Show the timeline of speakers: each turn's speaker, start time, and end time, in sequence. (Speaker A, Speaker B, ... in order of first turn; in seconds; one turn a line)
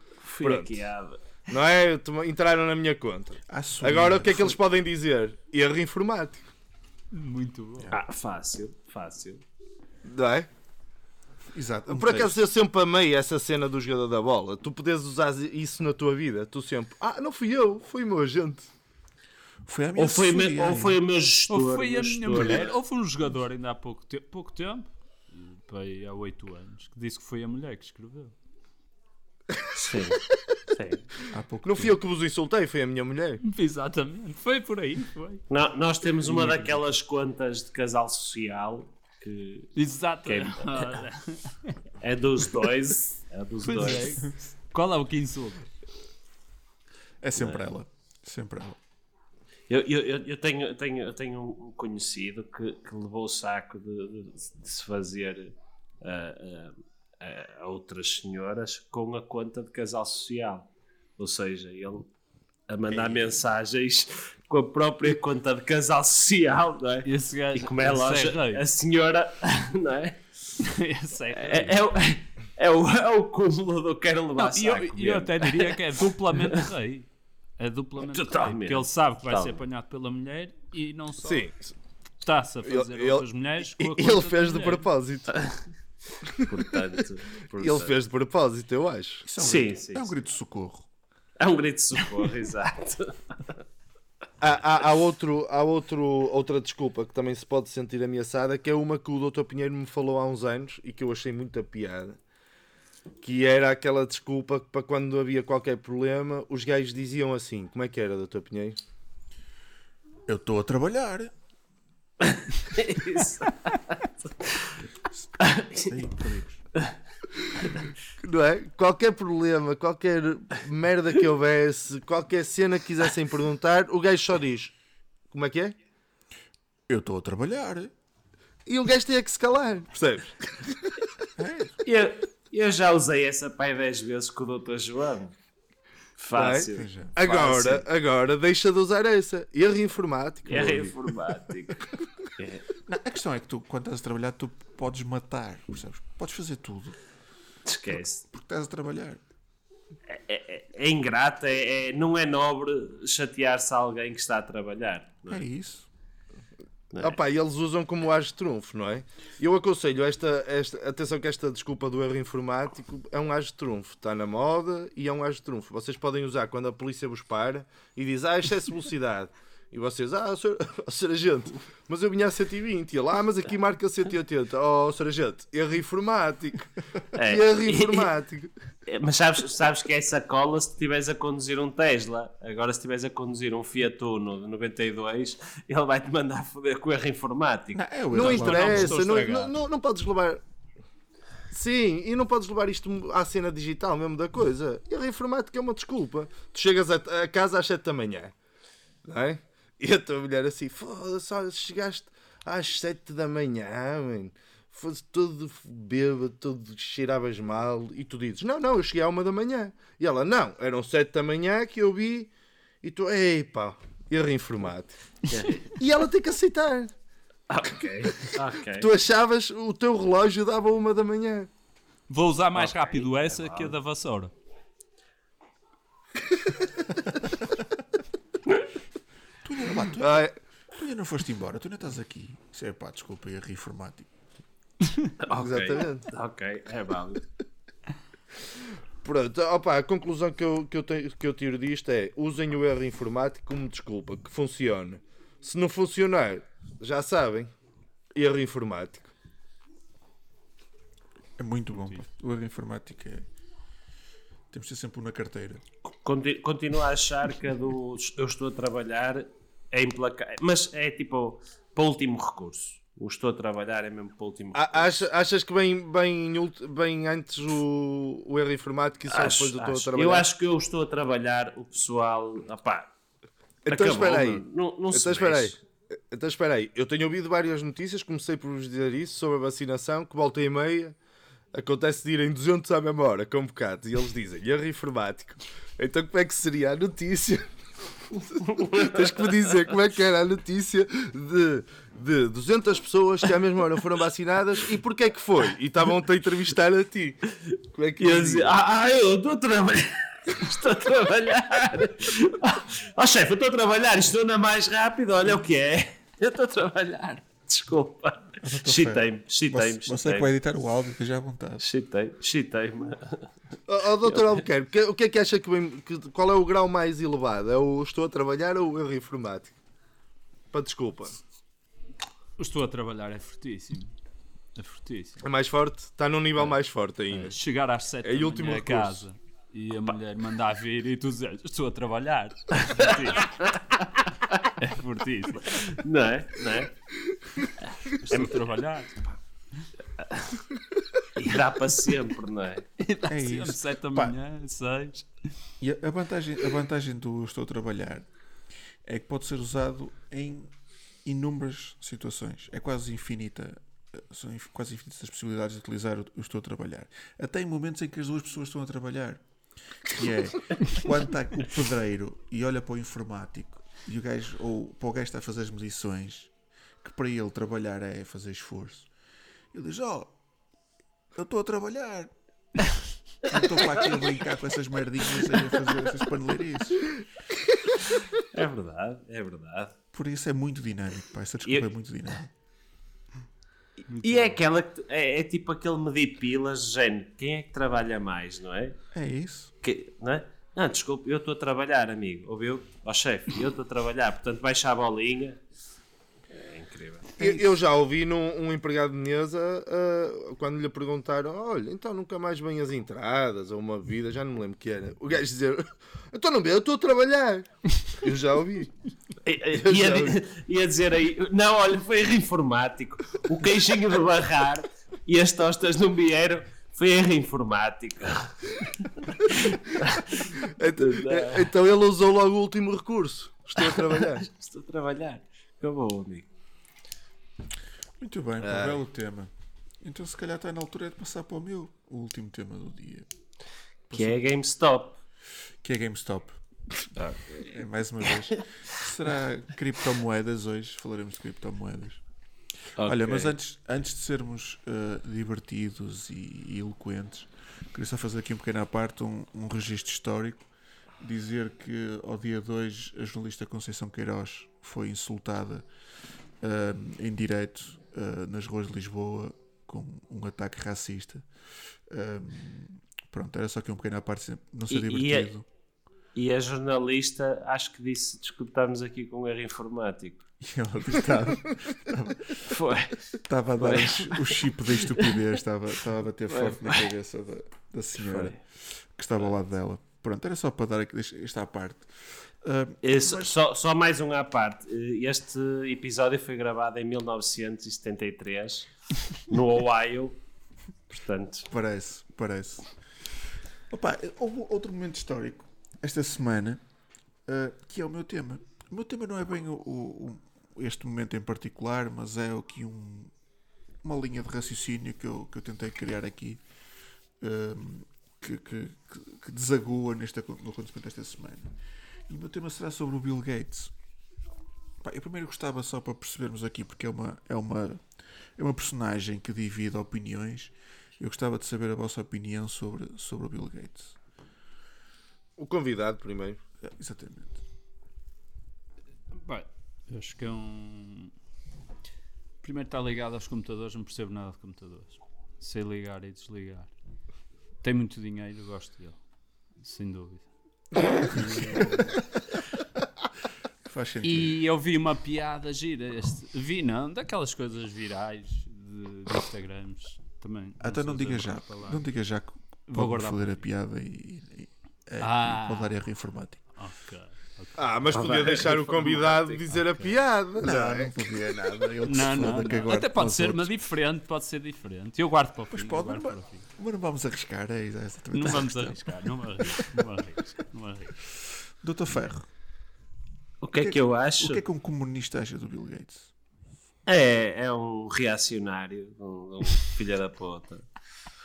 Speaker A: 0.3-1.2
Speaker B: 0.4-0.8
Speaker B: 1.5-6.5
Speaker C: 3.5-4.6
Speaker D: 7.1-7.9
Speaker A: 7.9-9.4
Speaker B: 10.0-10.5
Speaker C: 11.5-12.4
Speaker B: 11.9-18.7
Speaker C: 19.6-21.0
Speaker A: 19.9-22.7
Speaker D: 21.5-28.3
Speaker A: 29.7-31.1
Speaker C: 31.3-32.0
Speaker B: 31.6-33.4
Speaker D: 33.4-35.4
Speaker A: 35.5-41.0
Speaker D: 36.2-36.8
Speaker D: 39.8-41.8
Speaker A: 42.0-44.3
Speaker D: 43.6-45.6
Speaker C: 47.2-48.8
Speaker A: 49.7-62.1
Speaker A: 62.7-70.2
Speaker C: 62.9-63.3
Speaker D: 67.0-68.6
Speaker D: 70.6-71.8
Speaker A: 71.3-76.6
Speaker D: 74.4-81.5
Speaker A: 78.0-79.6
Speaker B: 81.2-81.7
Speaker D: 82.2-84.8
Speaker B: 82.6-85.4
Speaker A: 86.3-88.0
Speaker B: 87.6-89.2
Speaker C: 89.2-90.9
Speaker A: 89.4-90.1
Speaker A: 91.4-93.5
Speaker B: 94.4-102.2
Speaker B: 103.2-108.8
Speaker C: 110.3-111.3
Speaker A: 112.2-114.7
Speaker C: 115.1-116.6
Speaker A: 115.4-115.9
Speaker B: 118.2-124.7
Speaker B: 125.3-125.8
Speaker C: 126.9-127.9
Speaker B: 128.7-131.0
Speaker C: 131.4-131.8
Speaker A: 131.8-135.3
Speaker A: 136.2-137.8
Speaker B: 136.3-140.9
Speaker C: 136.7-137.2
Speaker A: 140.4-141.8
Speaker C: 140.5-140.9
Speaker A: 142.4-142.6
Speaker C: 142.9-146.9
Speaker A: 147.7-148.2
Speaker C: 147.9-149.2
Speaker A: 150.1-155.4
Speaker C: 155.3-155.9
Speaker A: 156.9-157.2
Speaker B: 157.0-178.5
Speaker A: 177.1-178.1
Speaker A: 178.9-187.8
Speaker C: 187.7-189.0
Speaker B: 188.1-190.4
Speaker D: 188.1-189.5
Speaker B: 191.5-198.3
Speaker B: 199.0-212.3
Speaker B: 212.8-216.9
Speaker A: 215.3-215.7
Speaker A: 217.5-218.9
Speaker B: 218.8-221.5
Speaker D: 222.1-224.3
Speaker A: 222.5-223.7
Speaker C: 227.3-227.6
Speaker C: 229.4-234.1
Speaker B: 230.0-230.3
Speaker A: 235.2-237.2
Speaker B: 235.3-236.1
Speaker B: 239.0-247.5
Speaker B: 248.2-249.1
Speaker C: 251.4-253.3
Speaker C: 254.5-255.6
Speaker A: 255.8-265.1
Speaker B: 264.5-270.2
Speaker A: 269.1-272.9
Speaker B: 273.7-275.5
Speaker A: 273.7-275.6
Speaker B: 276.1-280.9
Speaker B: 281.5-287.5
Speaker B: 288.1-298.5
Speaker A: 298.0-310.3
Speaker C: 308.4-311.6
Speaker A: 311.6-313.2
Speaker B: 313.7-319.6
Speaker A: 314.1-314.4
Speaker B: 320.5-321.2
Speaker D: 322.4-323.9
Speaker D: 324.5-325.2
Speaker B: 325.2-327.4
Speaker D: 327.1-333.3
Speaker B: 328.0-329.0
Speaker A: 332.7-334.1
Speaker D: 334.6-335.8
Speaker A: 335.7-336.7
Speaker D: 338.1-339.0
Speaker A: 341.1-342.6
Speaker D: 342.8-345.1
Speaker C: 343.1-344.1
Speaker C: 345.6-348.1
Speaker C: 348.8-350.5
Speaker C: 351.0-359.2
Speaker C: 359.8-368.9
Speaker C: 369.5-370.1
Speaker C: 371.1-372.1
Speaker C: 373.2-377.0
Speaker A: 378.3-379.8
Speaker C: 379.9-382.3
Speaker D: 383.9-384.3
Speaker A: 384.0-388.8
Speaker C: 388.9-389.5
Speaker A: 389.6-395.4
Speaker A: 396.3-397.2
Speaker B: 397.2-408.7
Speaker C: 397.2-397.4
Speaker A: 409.2-421.5
Speaker B: 409.5-410.2
Speaker B: 420.4-424.2
Speaker A: 423.6-426.3
Speaker C: 428.0-429.3
Speaker B: 428.4-428.8
Speaker C: 429.8-433.1
Speaker C: 433.9-434.2
Speaker A: 433.9-435.0
Speaker C: 435.6-436.4
Speaker A: 436.9-438.1
Speaker C: 437.4-442.0
Speaker A: 442.8-443.4
Speaker C: 442.8-450.5
Speaker C: 451.0-455.7
Speaker C: 456.4-461.3
Speaker C: 461.9-465.4
Speaker A: 464.7-465.3
Speaker A: 466.1-470.2
Speaker C: 470.4-472.6
Speaker A: 472.5-475.2
Speaker C: 473.2-483.4
Speaker A: 476.3-476.9
Speaker A: 478.0-478.4
Speaker A: 482.8-490.2
Speaker A: 490.9-491.5
Speaker C: 491.5-496.6
Speaker C: 497.2-503.1
Speaker C: 503.8-506.4
Speaker C: 507.2-511.6
Speaker C: 512.1-513.7
Speaker C: 514.8-517.8
Speaker C: 518.4-524.0
Speaker B: 525.4-526.4
Speaker C: 526.6-527.4
Speaker D: 529.1-531.1
Speaker D: 532.4-536.7
Speaker D: 537.6-539.0
Speaker D: 539.6-540.3
Speaker D: 541.0-541.9
Speaker C: 541.5-541.9
Speaker C: 543.6-544.4
Speaker D: 544.0-551.8
Speaker C: 550.6-556.5
Speaker D: 552.7-553.4
Speaker D: 555.0-555.7
Speaker D: 556.5-558.1
Speaker B: 557.6-560.9
Speaker A: 557.9-559.8
Speaker C: 560.4-563.6
Speaker D: 561.8-566.4
Speaker C: 565.5-569.8
Speaker D: 568.1-571.0
Speaker C: 571.6-572.3
Speaker A: 573.4-574.4
Speaker C: 573.5-576.1
Speaker A: 576.9-580.7